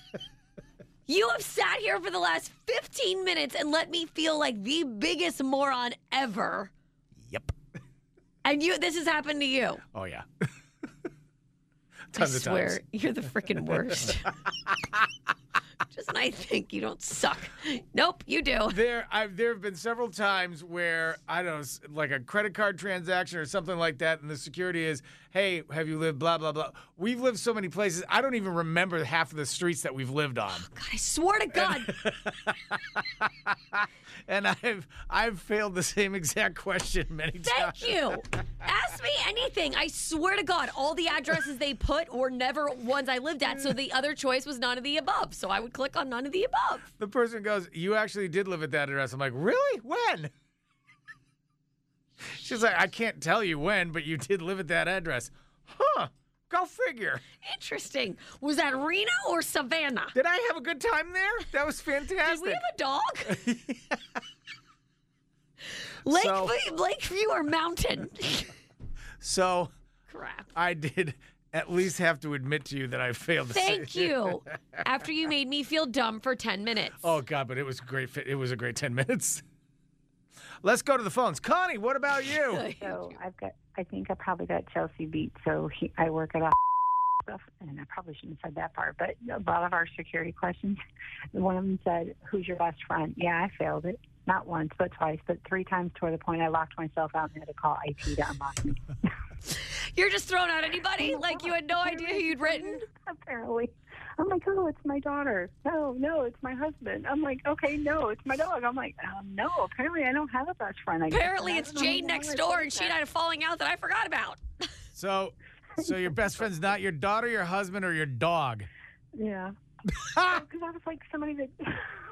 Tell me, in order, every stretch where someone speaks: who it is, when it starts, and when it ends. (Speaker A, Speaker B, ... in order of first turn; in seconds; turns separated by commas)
Speaker A: 1.1-6.7, Speaker B: 7.2-7.5, Speaker A: 8.4-9.8, Speaker B: 9.9-10.3, Speaker B: 12.1-12.8, Speaker A: 12.2-14.3, Speaker B: 14.7-15.0, Speaker A: 15.9-18.8, Speaker B: 18.7-30.6, Speaker A: 30.6-31.9, Speaker B: 31.6-37.9, Speaker A: 37.4-46.8, Speaker B: 46.9-50.3, Speaker B: 52.2-57.2, Speaker A: 57.4-60.1, Speaker B: 60.1-62.6, Speaker A: 62.2-63.4, Speaker B: 63.3-64.2, Speaker A: 65.7-68.5, Speaker B: 66.1-66.5, Speaker B: 69.2-69.7, Speaker A: 70.1-70.5, Speaker B: 70.5-74.6, Speaker A: 73.5-77.1, Speaker B: 77.0-79.4, Speaker B: 80.6-82.7, Speaker A: 82.5-83.2, Speaker C: 82.8-86.5, Speaker C: 87.2-90.8, Speaker C: 91.3-98.9, Speaker A: 99.4-102.8, Speaker C: 101.0-112.9, Speaker A: 111.1-114.7, Speaker B: 115.0-118.7, Speaker C: 119.2-119.5, Speaker B: 119.9-120.4, Speaker C: 120.2-121.9